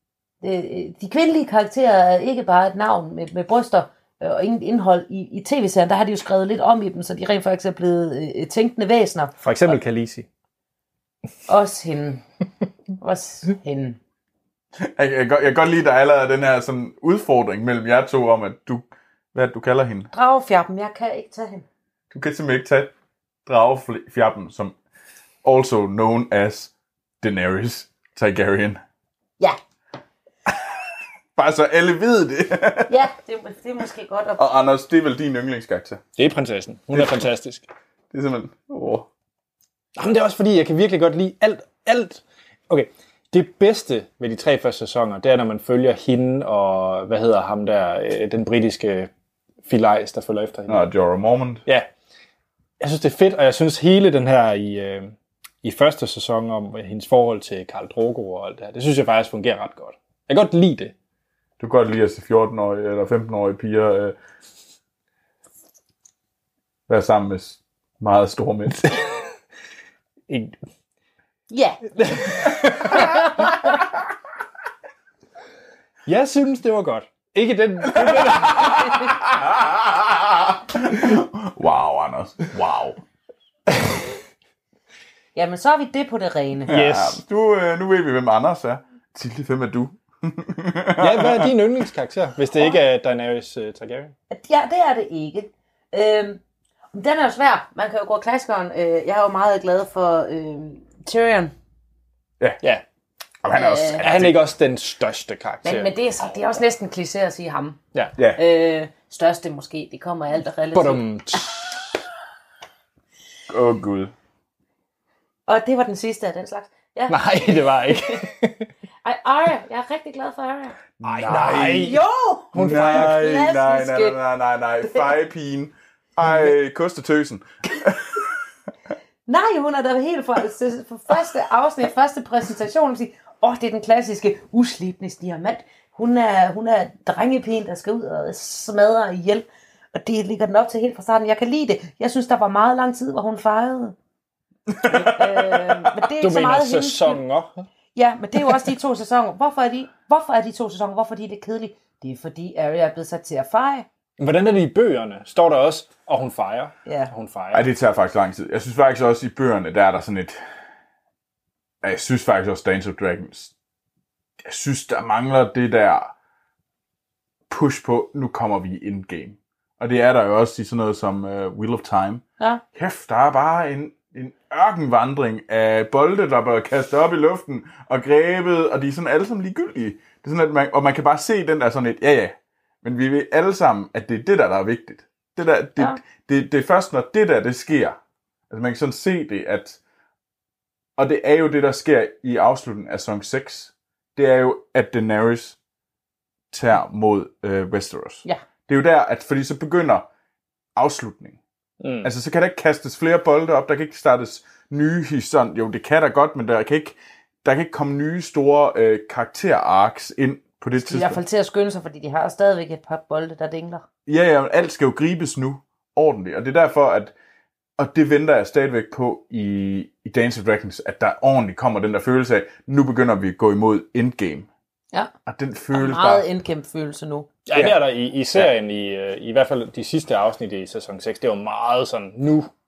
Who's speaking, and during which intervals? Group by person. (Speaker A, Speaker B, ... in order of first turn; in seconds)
Speaker A: 0.4-9.3, 11.5-12.2, 13.0-14.0, 20.1-21.6, 32.9-34.4, 71.5-73.7, 85.3-86.7, 94.3-96.4, 96.9-101.5, 103.5-104.0, 105.6-107.8, 108.3-111.0, 115.5-118.2, 119.0-120.8, 121.7-124.2, 124.8-125.1, 129.3-143.9, 144.8-147.2, 147.9-153.8, 156.8-157.1, 210.8-213.8, 225.7-227.3
Speaker B: 9.4-10.3, 36.2-37.6, 40.0-49.1, 49.6-50.8, 52.8-60.9, 70.3-70.5, 72.0-73.5, 76.0-79.0, 83.7-84.1, 86.7-87.2, 91.0-94.1, 104.0-105.9, 110.7-112.0, 117.1-118.7, 121.0-122.0, 122.5-123.3, 146.2-147.7, 154.2-157.7, 201.8-202.1, 227.5-232.5
Speaker C: 14.8-20.1, 22.1-22.9, 23.4-24.8, 25.4-28.8, 30.5-30.8, 31.4-33.0, 34.4-36.0, 36.9-37.2, 38.1-39.1, 50.7-51.6, 61.6-64.1, 66.9-69.0, 77.9-83.0, 86.7-91.5, 103.4-104.4, 113.5-114.1, 121.0-122.0, 122.5-128.3, 144.7-145.8, 157.5-160.4, 161.8-163.5, 164.4-166.1, 167.5-188.0, 188.5-189.8, 191.0-195.6, 196.5-200.1, 200.8-201.4, 202.0-211.2, 214.1-217.1, 217.8-224.5, 225.2-226.2